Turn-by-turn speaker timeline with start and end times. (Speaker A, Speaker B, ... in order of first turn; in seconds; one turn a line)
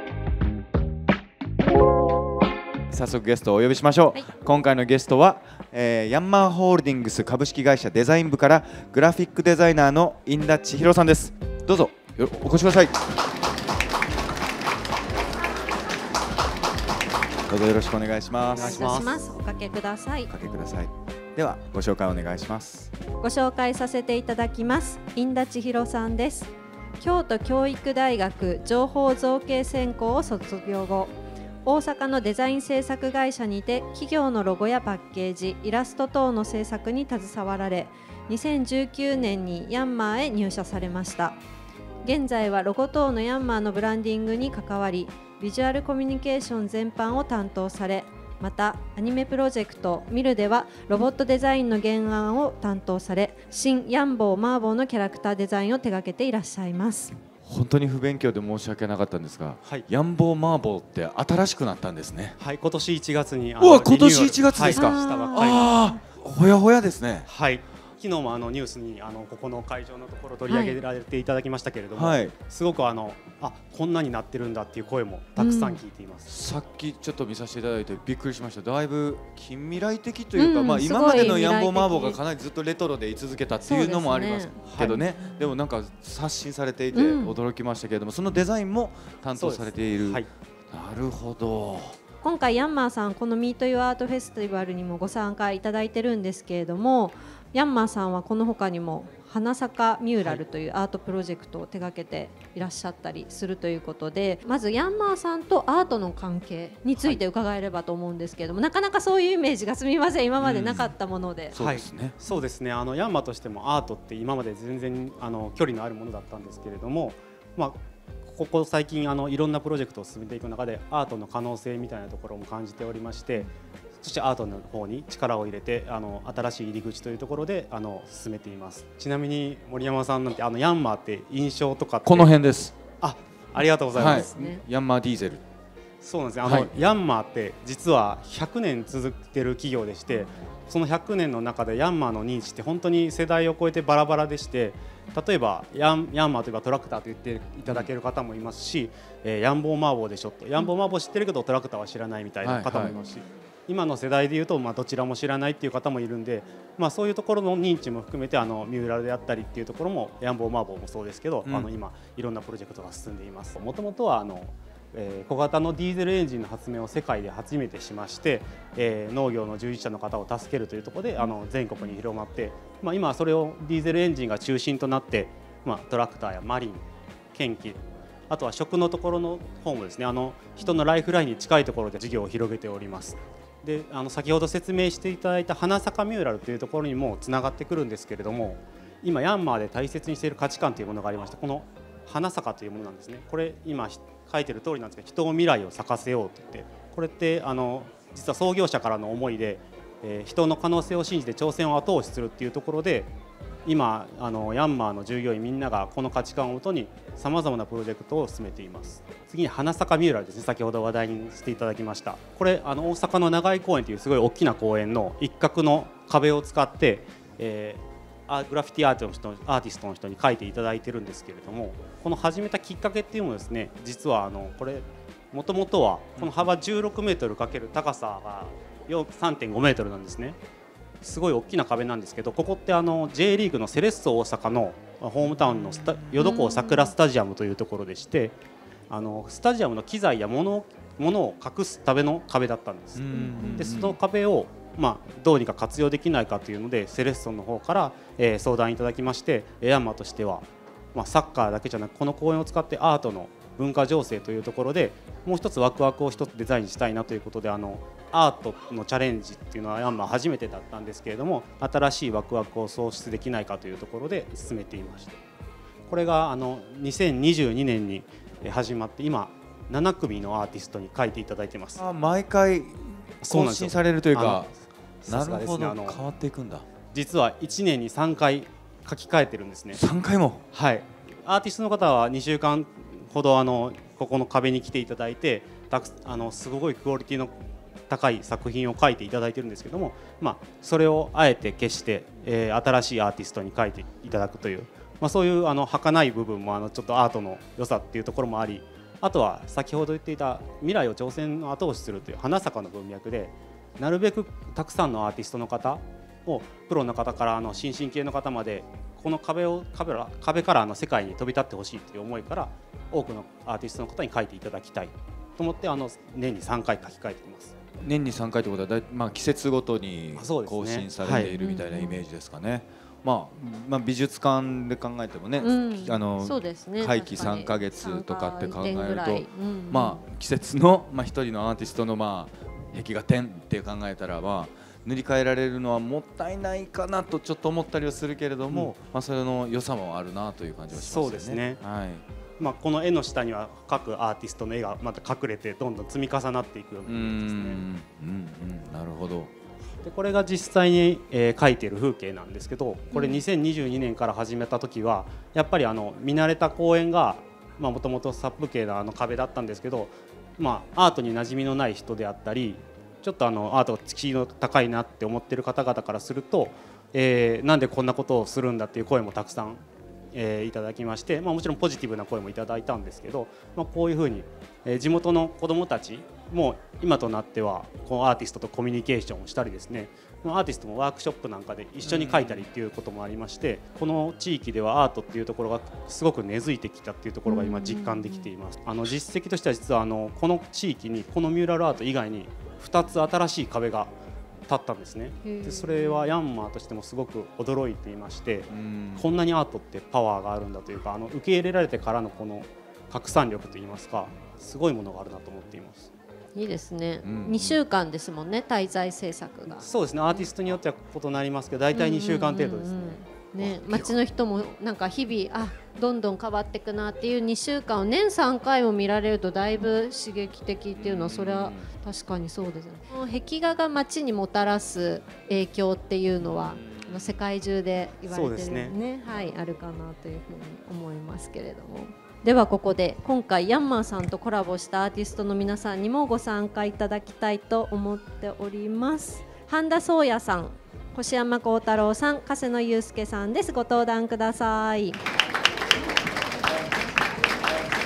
Speaker A: 2.9-13.0
Speaker A: 17.5-19.0
Speaker B: 18.5-19.3
Speaker C: 18.5-20.3
Speaker A: 20.3-22.9
Speaker C: 23.2-41.4
Speaker C: 42.0-57.2
Speaker A: 57.4-62.4
Speaker B: 62.4-65.7
Speaker A: 63.6-67.3
Speaker C: 64.7-65.7
Speaker B: 67.2-76.3
Speaker C: 70.5-70.8
Speaker A: 71.9-72.3
Speaker C: 75.4-75.8
Speaker A: 76.3-92.0
Speaker C: 80.4-82.2
Speaker C: 83.7-85.5
Speaker B: 84.7-85.0
Speaker C: 86.9-87.4
Speaker B: 89.3-90.3
Speaker C: 92.2-111.5
Speaker B: 107.0-107.2
Speaker A: 110.4-110.9
Speaker A: 111.5-112.1
Speaker B: 111.5-123.5
Speaker B: 124.0-132.3
Speaker A: 132.0-132.7
Speaker B: 133.0-134.6
Speaker A: 133.9-135.4
Speaker C: 134.0-134.5
Speaker B: 136.0-203.1
Speaker A: 136.4-136.7
Speaker A: 152.4-152.9
Speaker A: 161.4-161.7
Speaker B: 203.7-230.4
Speaker B: 231.0-238.3
Speaker C: 236.2-236.9
Speaker B: 238.9-265.2
Speaker A: 242.9-244.0
Speaker C: 243.1-243.7
Speaker B: 265.9-271.8
Speaker A: 271.8-274.5
Speaker B: 273.2-274.4
Speaker B: 275.0-276.0
Speaker A: 275.1-276.6
Speaker B: 276.9-279.8
Speaker A: 279.8-280.4
Speaker B: 280.5-287.3
Speaker B: 287.9-317.5
Speaker A: 317.8-342.0
Speaker B: 320.1-321.3
Speaker C: 321.0-322.0
Speaker C: 325.4-330.0
Speaker B: 340.7-341.6
Speaker B: 342.4-347.6
Speaker A: 346.9-349.3
Speaker B: 349.8-393.9
Speaker C: 352.9-353.2
Speaker A: 381.8-382.4
Speaker C: 387.2-388.3
Speaker B: 394.5-405.9
Speaker C: 395.2-396.1
Speaker A: 398.5-399.1
Speaker C: 406.3-410.3
Speaker A: 407.0-407.6
Speaker B: 409.6-413.9
Speaker C: 411.7-445.0
Speaker A: 420.7-421.7
Speaker A: 426.2-427.2
Speaker B: 428.1-428.8